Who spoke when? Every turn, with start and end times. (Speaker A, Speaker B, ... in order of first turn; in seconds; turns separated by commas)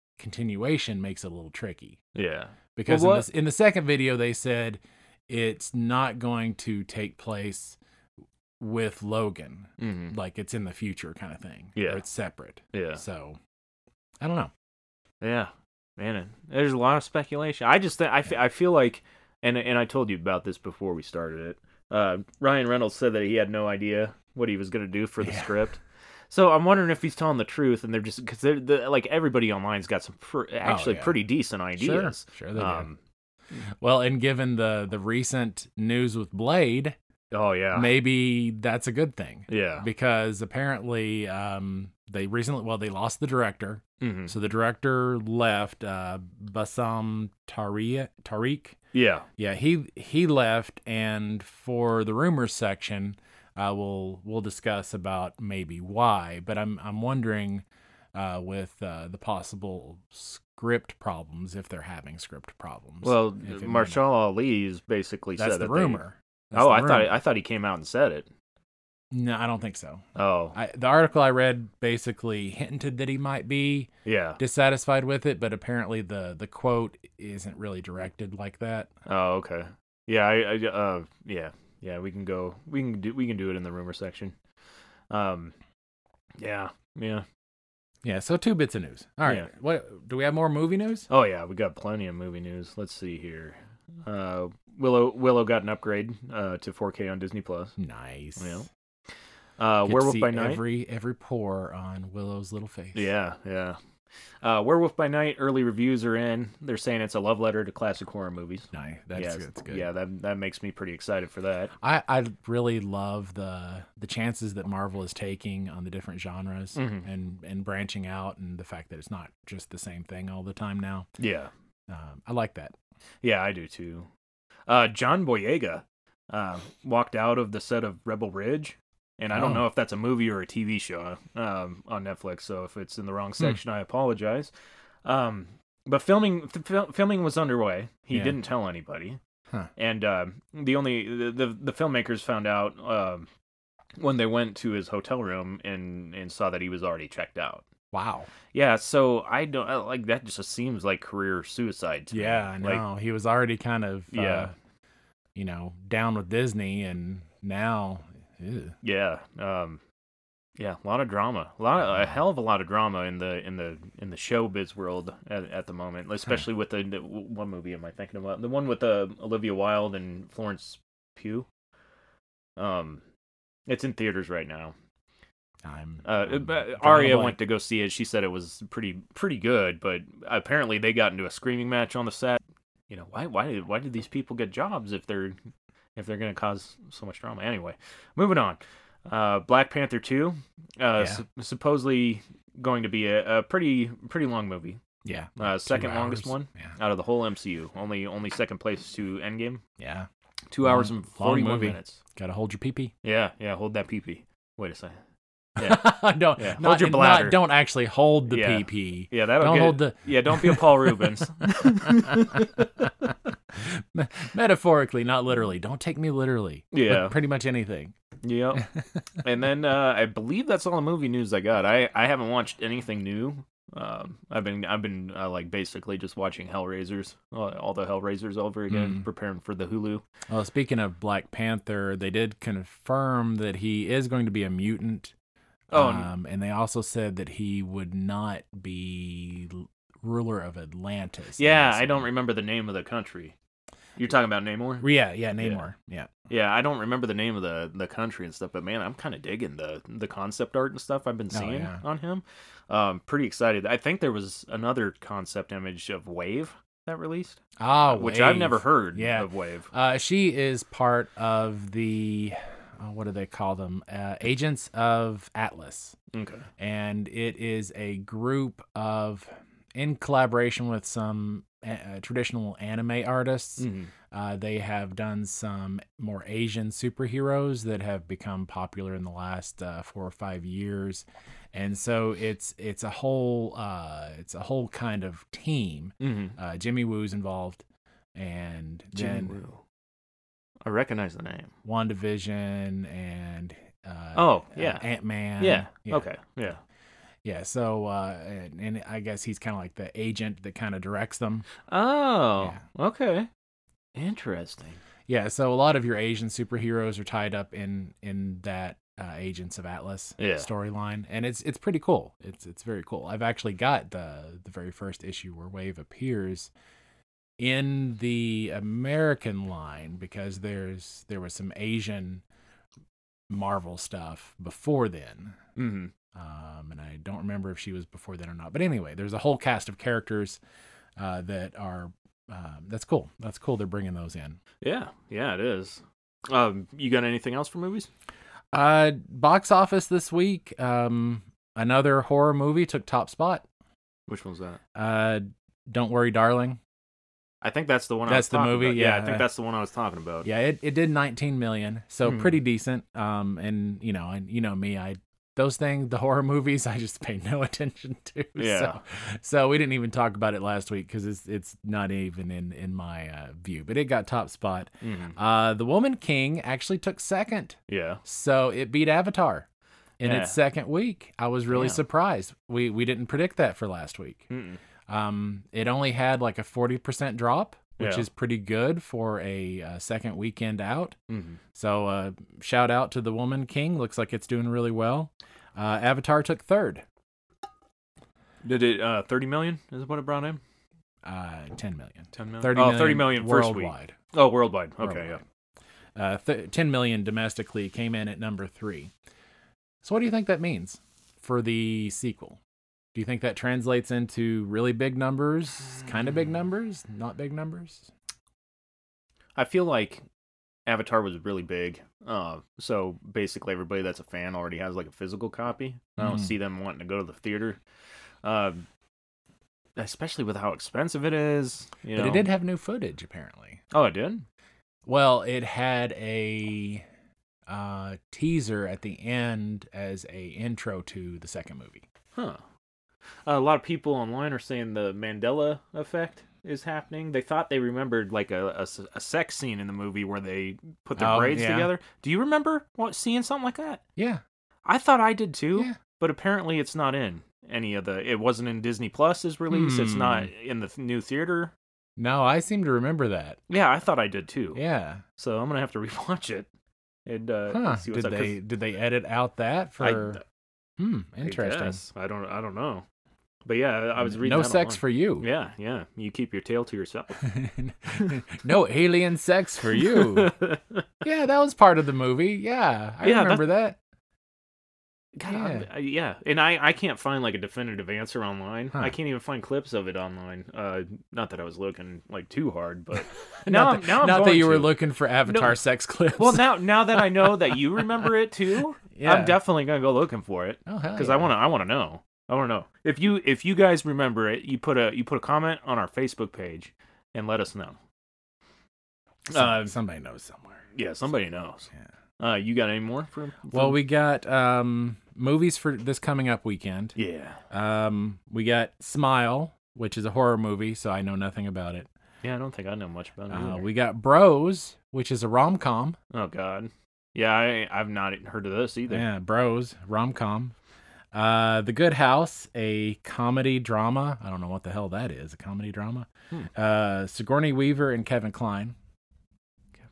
Speaker A: 0.2-2.0, Speaker B: 2.1-3.3, Speaker A: 2.8-7.8, Speaker A: 8.6-13.4, Speaker B: 9.8-10.1, Speaker B: 11.8-12.0, Speaker B: 12.7-13.0, Speaker A: 14.2-14.5, Speaker B: 15.2-33.0, Speaker A: 25.2-25.5, Speaker A: 30.6-31.2, Speaker A: 31.8-32.9, Speaker A: 33.5-37.0, Speaker B: 37.3-37.9, Speaker A: 37.7-48.8, Speaker B: 39.5-39.9, Speaker B: 44.0-44.3, Speaker B: 48.9-49.3, Speaker A: 49.4-64.0, Speaker B: 63.0-66.0, Speaker A: 65.4-67.1, Speaker B: 66.5-68.3, Speaker A: 69.1-78.9, Speaker B: 70.2-70.6, Speaker B: 74.0-74.4, Speaker B: 79.1-84.4, Speaker B: 85.1-85.5, Speaker B: 86.4-87.2, Speaker A: 88.0-91.1, Speaker B: 91.1-97.7, Speaker A: 97.8-98.6, Speaker B: 98.4-98.7, Speaker B: 99.6-100.6, Speaker A: 99.9-103.1, Speaker B: 102.9-103.8, Speaker B: 104.4-111.7, Speaker A: 108.7-109.9, Speaker A: 111.8-121.1, Speaker B: 116.8-117.1, Speaker B: 121.2-121.5, Speaker A: 121.9-122.8, Speaker B: 123.2-124.1, Speaker B: 124.7-134.5, Speaker A: 129.3-129.6, Speaker B: 135.1-139.2, Speaker A: 138.1-138.4, Speaker B: 139.8-143.3, Speaker B: 144.0-147.7, Speaker A: 147.9-148.3, Speaker B: 148.5-152.8, Speaker A: 152.1-154.5, Speaker B: 154.1-154.5, Speaker A: 155.3-158.8, Speaker B: 158.8-159.8, Speaker B: 160.6-171.5, Speaker B: 172.6-173.0, Speaker B: 173.7-174.7, Speaker A: 175.6-177.4, Speaker B: 176.1-185.4, Speaker B: 186.0-194.8, Speaker A: 195.1-196.8, Speaker B: 195.4-199.6, Speaker A: 199.8-200.1, Speaker B: 200.5-202.0, Speaker A: 200.6-202.9, Speaker B: 203.0-205.0, Speaker B: 205.6-207.4, Speaker A: 205.6-217.9, Speaker B: 208.3-212.7, Speaker B: 216.7-217.2, Speaker B: 218.2-218.7, Speaker B: 219.2-230.0, Speaker A: 228.7-229.0, Speaker A: 230.3-235.1, Speaker B: 235.7-236.1, Speaker A: 235.7-242.1, Speaker B: 241.4-243.3, Speaker B: 244.0-245.7, Speaker A: 244.8-246.1, Speaker B: 246.3-257.4, Speaker A: 251.3-251.8, Speaker A: 257.6-266.0, Speaker B: 257.9-259.7, Speaker B: 266.1-266.5, Speaker A: 266.6-287.6, Speaker B: 273.6-273.9, Speaker B: 286.0-286.4, Speaker A: 288.1-289.4, Speaker B: 289.0-289.6, Speaker B: 290.6-291.5, Speaker A: 291.6-296.1, Speaker B: 294.1-294.9, Speaker B: 295.4-296.6, Speaker A: 297.2-301.5, Speaker B: 301.7-303.3, Speaker B: 303.9-304.8, Speaker A: 305.1-316.5, Speaker B: 310.2-310.5, Speaker A: 317.4-322.2, Speaker A: 323.3-325.4, Speaker B: 325.6-325.9, Speaker A: 326.1-330.4, Speaker A: 331.0-334.4, Speaker B: 334.6-337.9, Speaker A: 338.5-343.4, Speaker B: 344.1-344.6, Speaker A: 344.8-346.6, Speaker B: 347.4-350.3, Speaker A: 348.1-349.3, Speaker A: 350.2-369.5, Speaker B: 352.0-352.4, Speaker B: 358.4-358.8, Speaker B: 364.8-365.2, Speaker B: 367.7-368.0, Speaker A: 370.0-374.3, Speaker B: 370.0-370.4, Speaker B: 371.5-371.8, Speaker B: 374.3-374.6, Speaker A: 374.9-381.0, Speaker B: 377.8-378.1, Speaker B: 381.1-381.4, Speaker A: 381.6-386.8, Speaker B: 388.4-390.4, Speaker A: 391.0-394.0, Speaker B: 392.1-395.2, Speaker A: 394.8-395.2, Speaker A: 395.9-398.9, Speaker A: 399.8-402.4, Speaker A: 402.9-407.9, Speaker B: 409.4-410.0, Speaker B: 410.7-417.6, Speaker A: 416.0-416.3, Speaker B: 418.2-418.7, Speaker B: 419.8-422.3, Speaker A: 421.9-423.6, Speaker B: 423.7-424.2, Speaker A: 424.9-426.9, Speaker A: 427.5-431.9, Speaker B: 432.1-432.4, Speaker B: 433.3-443.8, Speaker A: 441.0-441.7, Speaker A: 444.0-444.2, Speaker B: 444.6-451.5, Speaker A: 449.5-450.3, Speaker A: 452.0-453.4, Speaker B: 453.5-454.6, Speaker A: 454.6-455.0, Speaker B: 455.2-456.5, Speaker B: 457.1-458.4, Speaker A: 457.5-460.2, Speaker B: 459.8-460.2, Speaker A: 460.8-461.8, Speaker B: 461.2-462.9, Speaker B: 463.5-467.3, Speaker A: 464.0-465.3, Speaker A: 467.2-470.4, Speaker B: 469.8-470.8, Speaker A: 471.0-473.8, Speaker B: 473.0-473.5, Speaker B: 475.2-484.8, Speaker A: 475.3-475.7, Speaker A: 483.1-488.1, Speaker B: 485.3-485.6, Speaker B: 486.2-497.8, Speaker A: 488.9-489.4, Speaker A: 490.7-491.3, Speaker B: 499.3-499.8, Speaker A: 499.3-500.7, Speaker B: 500.7-503.8, Speaker A: 503.5-507.0, Speaker B: 507.0-507.4, Speaker A: 507.5-511.9, Speaker B: 512.2-513.7, Speaker A: 513.3-516.0, Speaker B: 516.1-519.0, Speaker A: 518.9-520.5, Speaker A: 521.1-528.8